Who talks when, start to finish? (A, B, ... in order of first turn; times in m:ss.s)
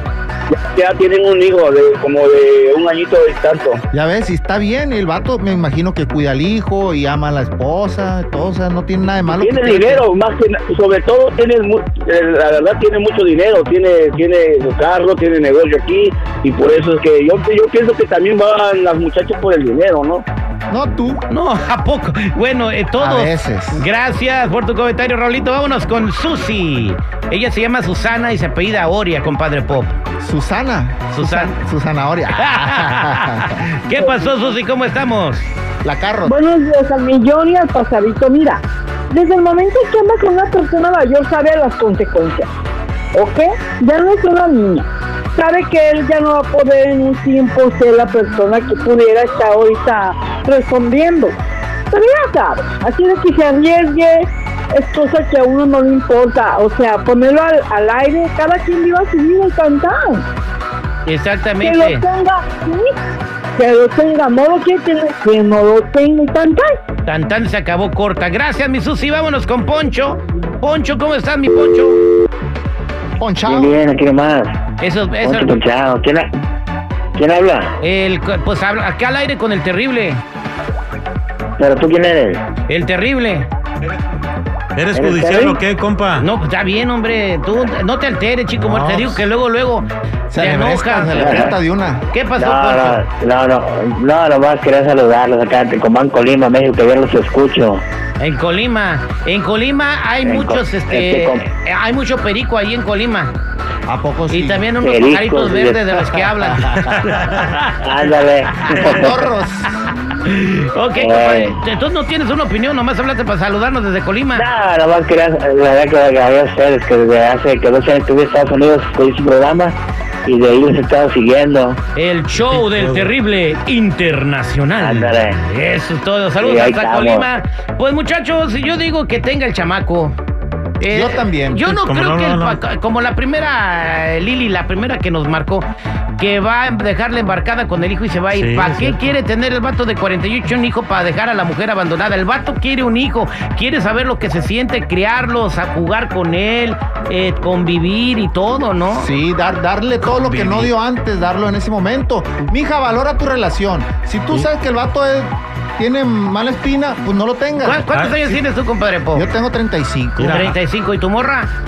0:00.5-0:03.8 A
0:03.9-0:10.0 B
0:09.3-0:20.2 A
0:20.7-0:21.3 B
0:21.3-0:29.9 C
0:23.0-0:23.8 B
0:30.2-0:33.6 B
0:31.2-0:31.5 C
0:32.4-0:35.4 C
0:35.8-0:36.4 B
0:36.2-0:42.5 D
0:43.2-0:51.3 D
0:51.9-1:00.2 D
1:01.1-1:02.0 C
1:01.6-1:02.9 D
1:03.6-1:06.7 D
1:07.1-1:12.0 C
1:13.2-1:13.8 B
1:13.4-1:14.6 E
1:14.8-1:15.6 C
1:15.2-1:16.3 E
1:17.2-1:17.7 E
1:17.8-1:20.2 C
1:21.6-1:22.4 E
1:22.7-1:23.5 C
1:24.8-1:26.3 F
1:24.9-1:25.6 E
1:26.2-1:31.5 C
1:28.6-1:29.2 F
1:30.3-1:32.0 B
1:31.2-1:31.5 E
1:32.1-1:33.0 C
1:32.4-1:37.8 E
1:38.2-1:43.3 C
1:40.2-1:41.4 E
1:43.9-1:44.7 B
1:44.3-1:49.0 C
1:44.8-1:46.2 E
1:47.8-1:49.2 E
1:48.8-1:49.8 B
1:50.2-1:54.5 C
1:51.0-1:51.6 E
1:54.3-2:01.8 E
2:01.9-2:10.1 C
2:02.5-2:03.1 F
2:04.8-2:05.4 E
2:06.4-2:07.3 E
2:10.8-2:15.7 C
2:10.9-2:11.7 B
2:11.7-2:12.6 F
2:16.2-2:29.1 C
2:18.3-2:19.0 F
2:28.9-2:38.4 B
2:30.0-2:30.7 C
2:37.6-2:39.3 C
2:37.9-2:38.2 F
2:39.1-2:40.4 B
2:40.2-2:40.6 F
2:40.3-2:41.5 C